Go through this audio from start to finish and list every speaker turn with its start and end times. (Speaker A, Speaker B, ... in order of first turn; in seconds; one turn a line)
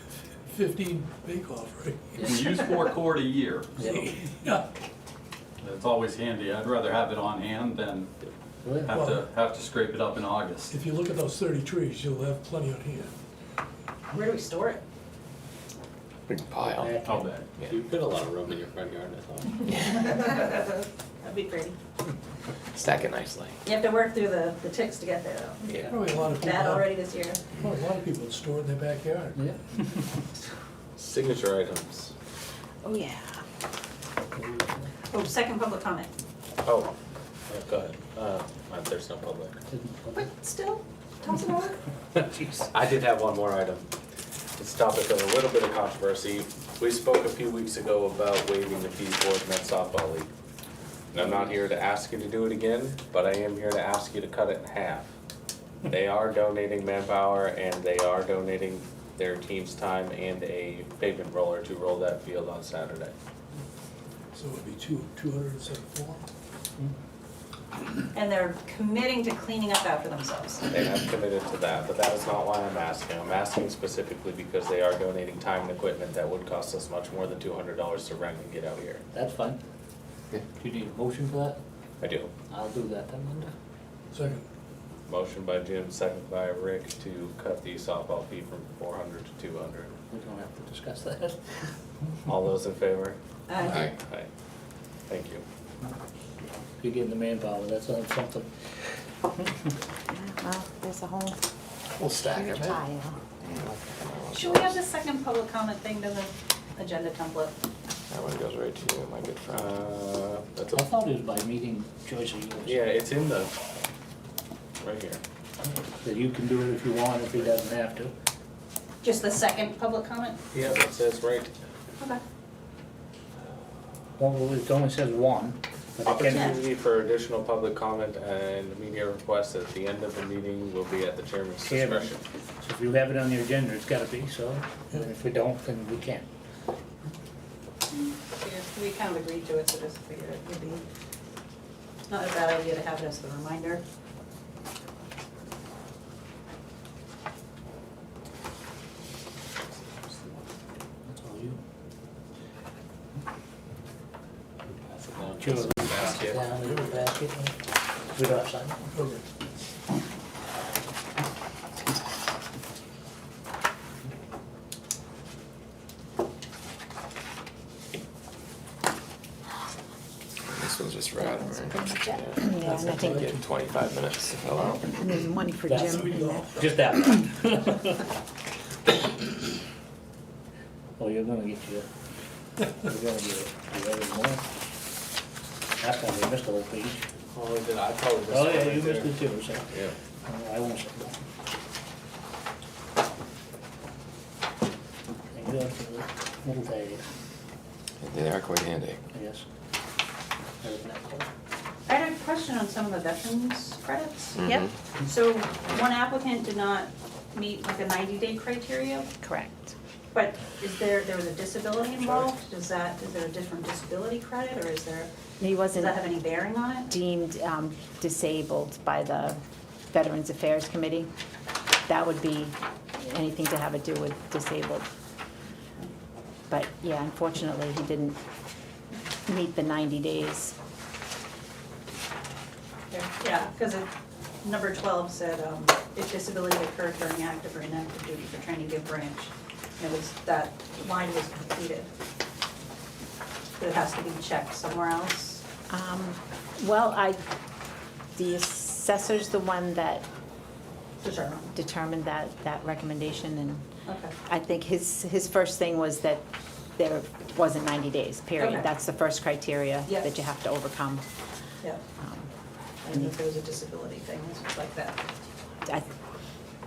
Speaker A: 0.4-2.6
Speaker B: 2.3-3.9
Speaker C: 3.8-4.1
Speaker A: 3.8-4.6
Speaker B: 5.6-8.1
Speaker C: 8.6-9.0
Speaker B: 8.8-10.7
Speaker A: 8.9-9.3
Speaker A: 10.7-13.1
Speaker D: 14.1-14.8
Speaker E: 16.3-17.0
Speaker C: 16.6-17.4
Speaker B: 17.0-17.4
Speaker F: 17.1-19.7
Speaker E: 19.7-20.1
Speaker D: 20.0-21.8
Speaker E: 22.7-23.6
Speaker D: 23.6-25.8
Speaker A: 25.8-27.0
Speaker D: 26.3-27.4
Speaker A: 27.6-29.4
Speaker F: 31.0-32.1
Speaker G: 32.8-33.4
Speaker C: 34.3-34.9
Speaker D: 35.1-36.1
Speaker F: 36.6-36.9
Speaker F: 37.5-39.6
Speaker C: 39.7-40.3
Speaker D: 40.1-41.8
Speaker F: 42.4-43.9
Speaker F: 44.6-50.3
Speaker F: 51.1-55.1
Speaker F: 55.9-63.1
Speaker A: 64.3-66.3
Speaker D: 68.1-70.6
Speaker F: 70.7-79.0
Speaker C: 79.1-79.6
Speaker C: 80.5-81.6
Speaker F: 82.0-82.3
Speaker C: 82.5-83.5
Speaker A: 84.1-84.5
Speaker F: 85.1-90.0
Speaker C: 90.1-91.6
Speaker F: 92.3-94.3
Speaker D: 93.5-93.9
Speaker E: 93.7-93.9
Speaker F: 95.1-95.4
Speaker C: 96.8-98.5
Speaker G: 100.1-101.4
Speaker G: 102.2-103.2
Speaker E: 103.4-104.8
Speaker D: 104.3-107.5
Speaker E: 108.1-109.9
Speaker F: 109.5-110.9
Speaker C: 110.7-112.9
Speaker F: 112.6-113.5
Speaker F: 114.8-115.2
Speaker C: 115.9-118.1
Speaker D: 119.0-120.4
Speaker F: 120.5-121.5
Speaker C: 124.2-126.6
Speaker F: 126.0-132.2
Speaker D: 126.2-126.6
Speaker C: 131.7-136.3
Speaker D: 137.9-140.8
Speaker D: 142.1-143.8
Speaker F: 149.7-150.5
Speaker C: 151.1-151.6
Speaker F: 154.7-156.5
Speaker C: 155.4-157.6
Speaker A: 156.6-157.0
Speaker C: 158.1-158.8
Speaker A: 158.8-159.2
Speaker E: 170.4-175.0
Speaker G: 171.2-173.3
Speaker A: 172.6-173.4
Speaker G: 174.9-176.7
Speaker C: 175.7-176.0
Speaker A: 175.8-176.8
Speaker C: 176.5-178.1
Speaker C: 181.0-181.9
Speaker C: 182.6-184.4
Speaker C: 185.8-187.1
Speaker F: 187.3-189.9
Speaker C: 188.3-189.7
Speaker C: 190.2-191.2
Speaker C: 195.3-197.0
Speaker E: 198.0-199.0
Speaker C: 199.1-199.4
Speaker C: 200.6-201.3
Speaker D: 201.9-204.4
Speaker E: 204.4-204.7
Speaker G: 204.4-204.7
Speaker D: 205.0-209.1
Speaker G: 209.2-209.7
Speaker D: 210.1-215.1
Speaker G: 215.4-216.0
Speaker D: 215.7-216.9
Speaker G: 216.9-221.1
Speaker G: 221.9-224.9
Speaker G: 226.5-228.2
Speaker G: 229.2-230.5
Speaker D: 232.9-233.9
Speaker D: 234.4-241.9
Speaker D: 243.6-245.4
Speaker G: 245.7-247.2
Speaker G: 248.1-250.1
Speaker D: 251.0-251.5
Speaker G: 251.5-253.7
Speaker D: 253.8-254.1
Speaker G: 254.2-261.0
Speaker D: 258.4-258.7
Speaker G: 262.0-262.3
Speaker D: 262.8-265.0